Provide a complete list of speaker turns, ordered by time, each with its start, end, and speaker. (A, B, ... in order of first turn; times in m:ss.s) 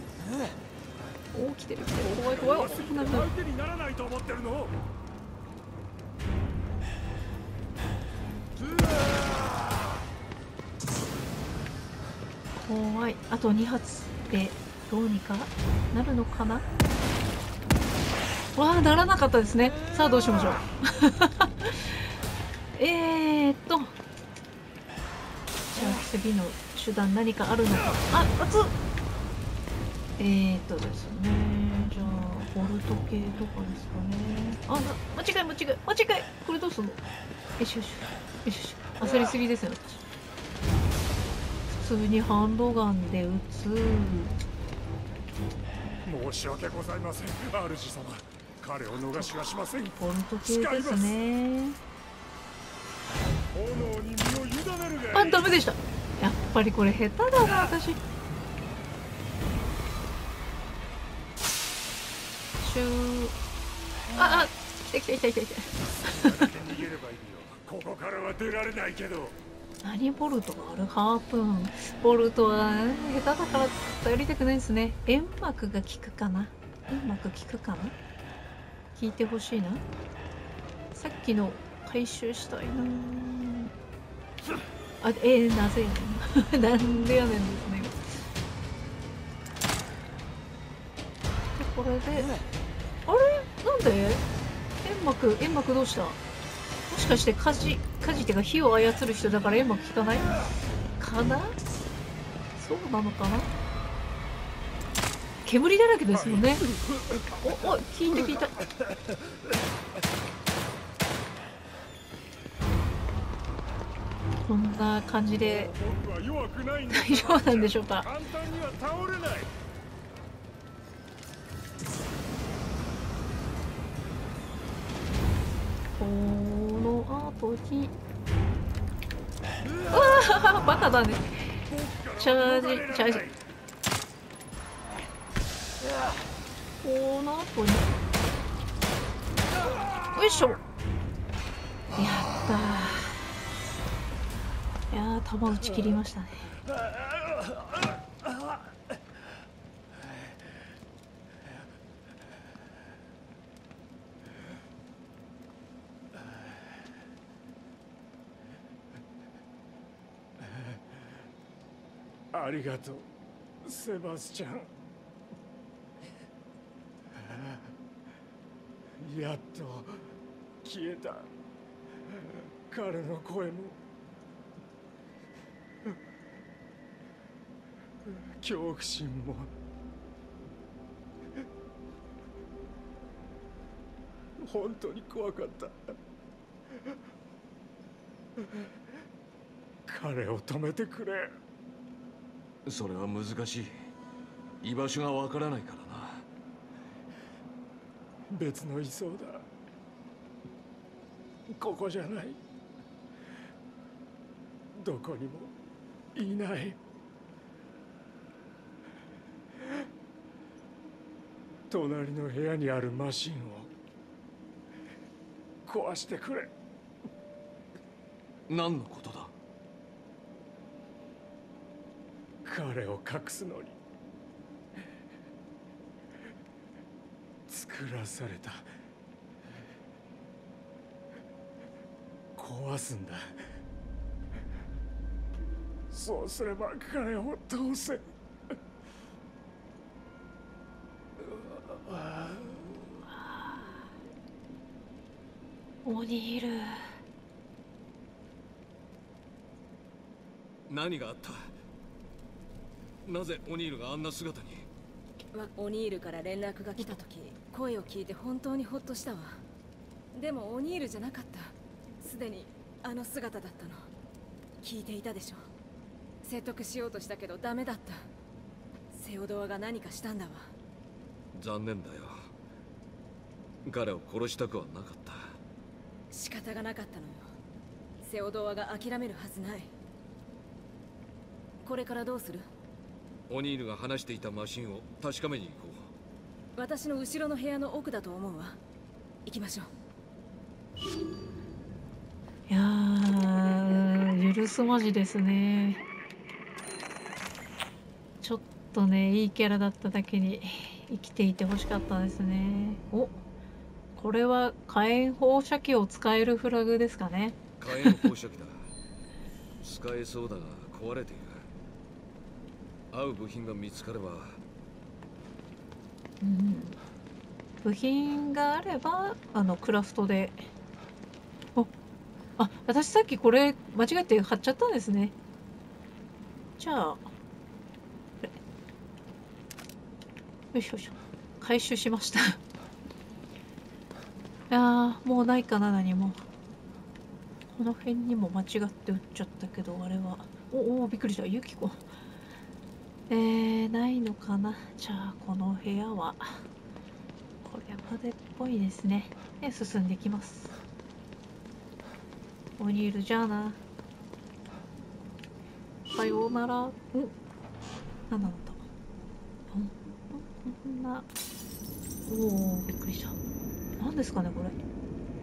0:01.3-0:03.3 A
0:02.0-0:04.8 B
0:12.5-0:16.6 A
0:18.5-0:22.1 A
0:22.7-0:23.9 A
0:25.7-0:28.7 A
0:30.2-0:37.0 A
0:37.6-0:40.0 A
0:41.7-0:44.4 A
0:46.0-0:51.2 B
0:50.0-0:51.8 A
0:53.5-0:55.4 B
0:55.1-0:58.0 A
1:02.6-1:03.4 A
1:04.1-1:06.4 A
1:06.0-1:09.4 B
1:09.8-1:18.0 A
1:18.9-1:19.8 A
1:20.9-1:23.7 A
1:25.0-1:28.2 A
1:31.5-1:32.3 A
1:33.0-1:34.2 A
1:34.8-1:36.2 A
1:36.9-1:41.6 A
1:42.6-1:43.5 A
1:45.4-1:46.6 A
1:46.1-1:47.4 B
1:47.4-1:48.6 A
1:54.5-1:55.7 A
1:55.4-1:59.5 B
1:56.9-1:58.1 A
2:06.0-2:07.9 A
2:09.9-2:11.5 A
2:11.6-2:13.4 B
2:12.2-2:13.2 A
2:16.8-2:17.9 A
2:20.1-2:20.6 A
2:22.0-2:23.2 A
2:24.9-2:26.5 A
2:42.3-2:43.1 B
2:43.6-2:44.7 B
2:47.2-2:47.6 B
2:49.0-2:50.0 B
2:50.6-2:51.3 B
2:52.1-2:53.8 B
2:58.1-2:59.5 B
3:04.4-3:05.9 B
3:09.9-3:11.3 B
3:12.6-3:13.7 C
3:14.6-3:16.2 C
3:18.3-3:19.4 B
3:21.5-3:22.4 B
3:24.7-3:25.5 B
3:26.1-3:26.8 B
3:31.7-3:33.7 B
3:35.6-3:36.5 B
3:38.5-3:39.3 C
3:42.4-3:43.8 B
3:47.5-3:48.7 B
3:52.4-3:53.3 B
3:55.9-3:58.1 B
4:01.3-4:02.7 B
4:03.1-4:03.9 A
4:05.8-4:06.9 A
4:10.7-4:11.5 C
4:13.0-4:14.6 C
4:15.3-4:19.4 D
4:20.1-4:23.9 D
4:24.6-4:25.4 D
4:26.2-4:28.1 D
4:28.9-4:30.5 D
4:31.3-4:32.3 C
4:33.6-4:35.4 C
4:36.1-4:37.3 D
4:38.0-4:39.7 D
4:41.6-4:42.5 D
4:43.3-4:45.9 C
4:46.5-4:48.6 D
4:49.2-4:49.7 D
4:52.5-4:55.8 A
4:58.2-5:03.2 A
5:03.9-5:08.1 A
5:07.6-5:08.7 C
5:09.6-5:11.5 C
5:12.9-5:14.4 C
5:16.2-5:16.8 A
5:17.6-5:20.5 A
5:22.4-5:25.1 A
5:26.6-5:27.1 A
5:30.5-5:32.4 A
5:34.5-5:36.2 A
5:37.5-5:41.8 A
5:43.1-5:46.4 A
5:47.4-5:50.6 A
5:52.6-5:53.6 A
5:55.9-5:57.1 A
5:58.1-5:58.6 A
5:59.5-6:01.1 A
6:02.0-6:03.2 A
6:03.8-6:04.6 A